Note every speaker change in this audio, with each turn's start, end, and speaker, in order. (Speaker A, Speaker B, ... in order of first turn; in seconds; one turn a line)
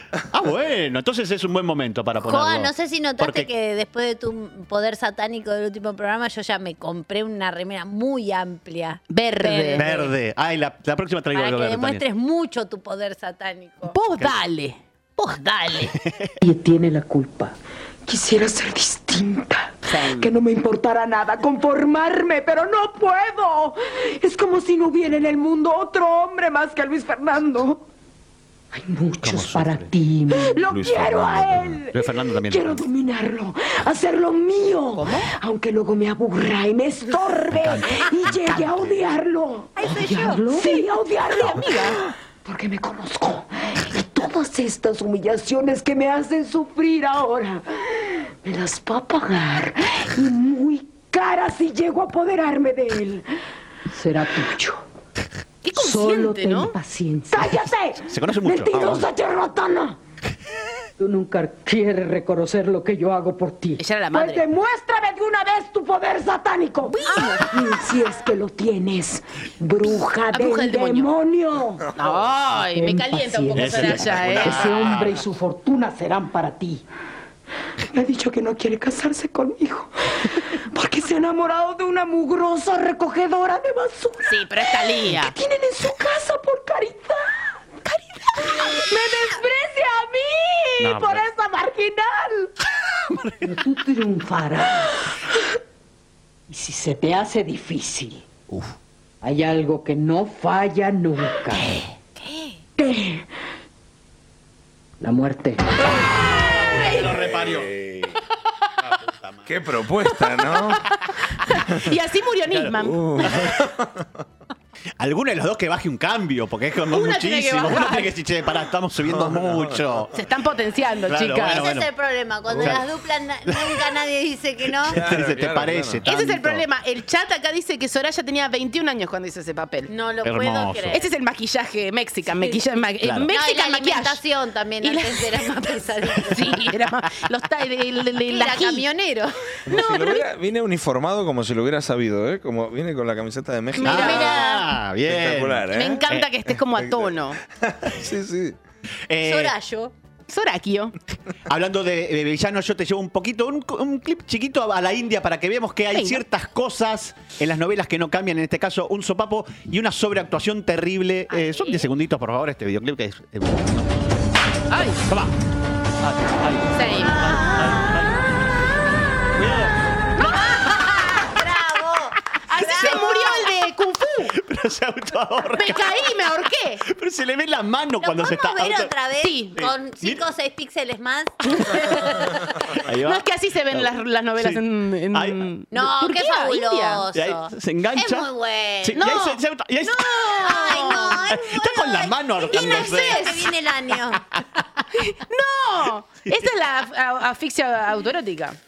Speaker A: 0.3-3.5
Speaker B: 2.2-10.1
Speaker C: 9.1-9.9
Speaker A: 9.8-12.0
Speaker B: 11.3-13.9
Speaker C: 13.9-14.8
Speaker B: 15.2-15.9
Speaker A: 16.0-16.3
Speaker D: 16.4-17.5
Speaker D: 18.1-27.8
Speaker C: 19.9-20.3
Speaker D: 28.7-47.6
Speaker A: 29.2-29.9
Speaker E: 30.6-31.8
Speaker A: 31.9-32.8
Speaker C: 34.9-35.3
Speaker A: 37.5-39.0
Speaker B: 39.8-40.4
Speaker C: 41.5-41.9
Speaker D: 48.4-53.2
Speaker D: 53.9-54.8
Speaker C: 55.6-56.8
Speaker D: 55.7-60.0
Speaker A: 58.1-59.1
Speaker D: 61.0-71.9
Speaker C: 63.8-64.4
Speaker C: 66.8-67.5
Speaker C: 70.3-71.1
Speaker C: 72.0-75.0
Speaker D: 72.5-76.8
Speaker A: 73.5-75.2
Speaker D: 77.9-87.3
Speaker C: 84.2-85.3
Speaker D: 88.3-92.5
Speaker A: 90.8-91.2
Speaker D: 93.4-94.9
Speaker D: 96.5-98.2
Speaker D: 99.2-101.6
Speaker B: 102.2-102.5
Speaker D: 102.8-103.2
Speaker D: 105.0-105.6
Speaker A: 106.4-107.8
Speaker C: 106.8-107.0
Speaker E: 107.2-107.6
Speaker A: 108.8-109.5
Speaker E: 109.5-110.9
Speaker C: 110.0-113.4
Speaker A: 112.5-113.5
Speaker E: 112.8-114.0
Speaker A: 115.0-120.1
Speaker C: 116.8-118.1
Speaker E: 119.1-119.8
Speaker C: 120.1-121.7
Speaker A: 121.1-121.9
Speaker B: 121.4-125.0
Speaker A: 122.5-122.8
Speaker A: 123.5-123.9
Speaker E: 124.9-126.0
Speaker A: 124.9-126.6
Speaker C: 126.0-129.9
Speaker B: 129.9-131.1
Speaker A: 130.2-131.0
Speaker C: 130.9-134.2
Speaker A: 133.0-133.3
Speaker B: 133.3-136.6
Speaker C: 134.8-138.8
Speaker B: 138.3-139.3
Speaker E: 139.7-144.4
Speaker C: 139.7-140.2
Speaker C: 143.7-144.7
Speaker A: 143.8-146.3
Speaker E: 145.0-146.0
Speaker C: 145.7-147.4
Speaker E: 146.8-147.1
Speaker E: 147.6-148.5
Speaker A: 149.1-149.5
Speaker B: 149.2-149.9
Speaker C: 150.3-150.9
Speaker A: 151.5-163.9
Speaker C: 155.9-156.2
Speaker C: 164.7-165.0
Speaker A: 165.1-165.3
Speaker A: 166.0-168.3
Speaker C: 166.7-167.3
Speaker B: 167.1-168.0
Speaker A: 169.3-169.7
Speaker B: 170.2-173.4
Speaker C: 172.5-174.3
Speaker A: 172.6-173.3
Speaker A: 174.2-176.0
Speaker C: 175.6-176.8
Speaker A: 176.8-178.9
Speaker B: 178.0-182.4
Speaker C: 179.2-179.5
Speaker A: 179.6-180.2
Speaker C: 181.5-181.9
Speaker A: 182.8-185.4
Speaker C: 183.0-187.1
Speaker B: 185.7-189.0
Speaker A: 187.1-188.3
Speaker A: 188.8-190.5
Speaker C: 188.9-189.4
Speaker B: 189.8-194.2
Speaker C: 190.1-191.2
Speaker A: 191.2-193.5
Speaker C: 192.6-193.2
Speaker C: 194.9-198.6